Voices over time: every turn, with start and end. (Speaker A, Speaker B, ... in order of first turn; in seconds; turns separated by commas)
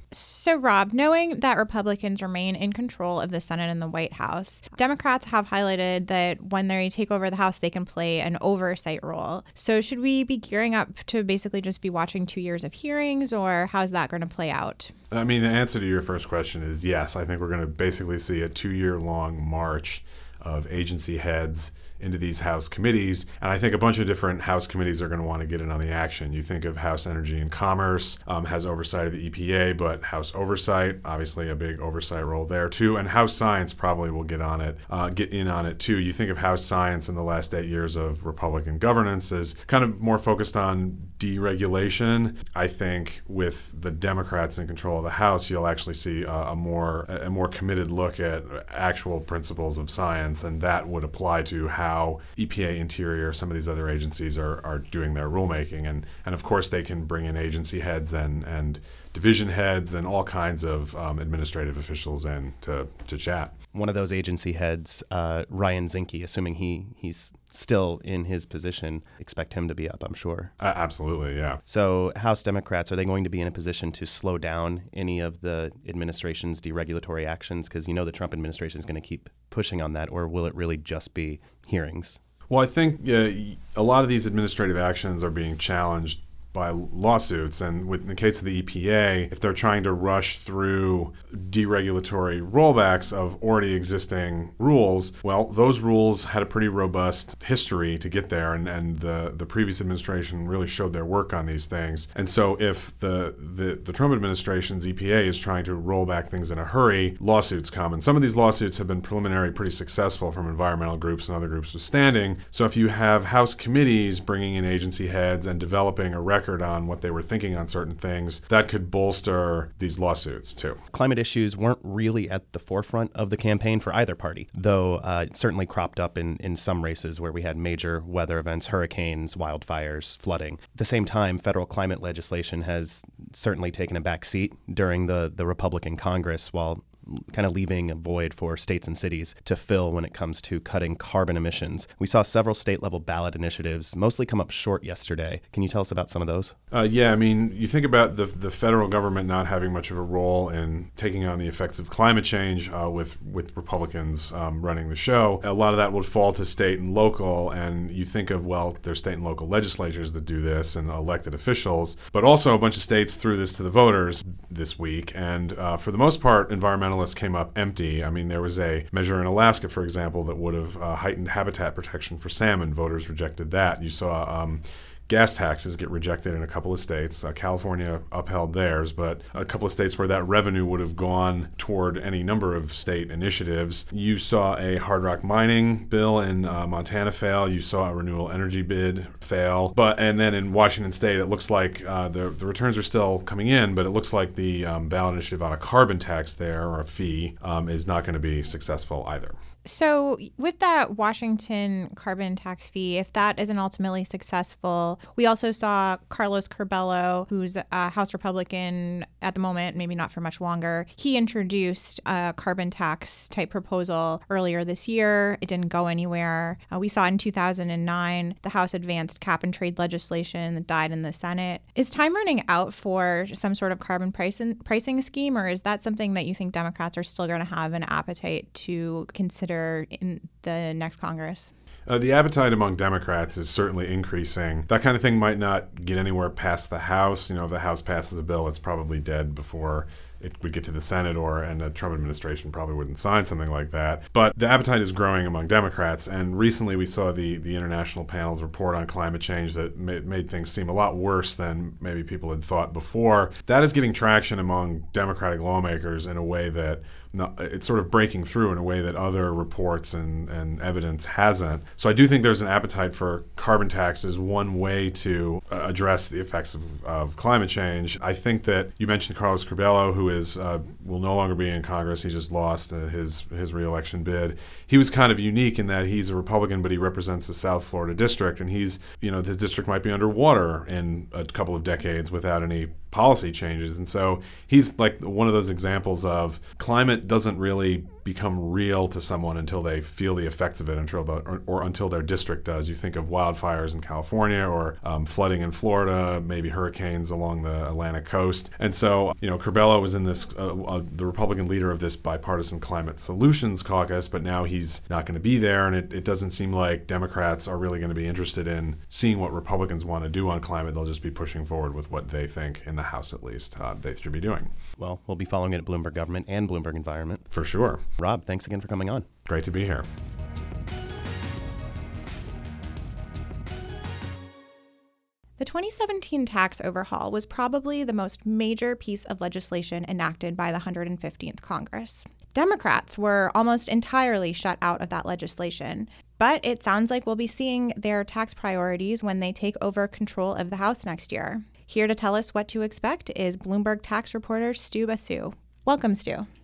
Speaker A: 0.1-14.9, Speaker B: 15.1-63.5, Speaker C: 63.7-70.5, Speaker B: 70.6-71.6, Speaker C: 71.7-82.2, Speaker B: 82.5-120.8, Speaker C: 120.9-146.5, Speaker B: 146.7-199.3, Speaker A: 199.6-231.5, Speaker B: 231.9-314.5, Speaker C: 314.8-317.3, Speaker B: 317.3-317.8, Speaker C: 318.0-319.1, Speaker B: 319.2-319.9, Speaker A: 325.4-346.3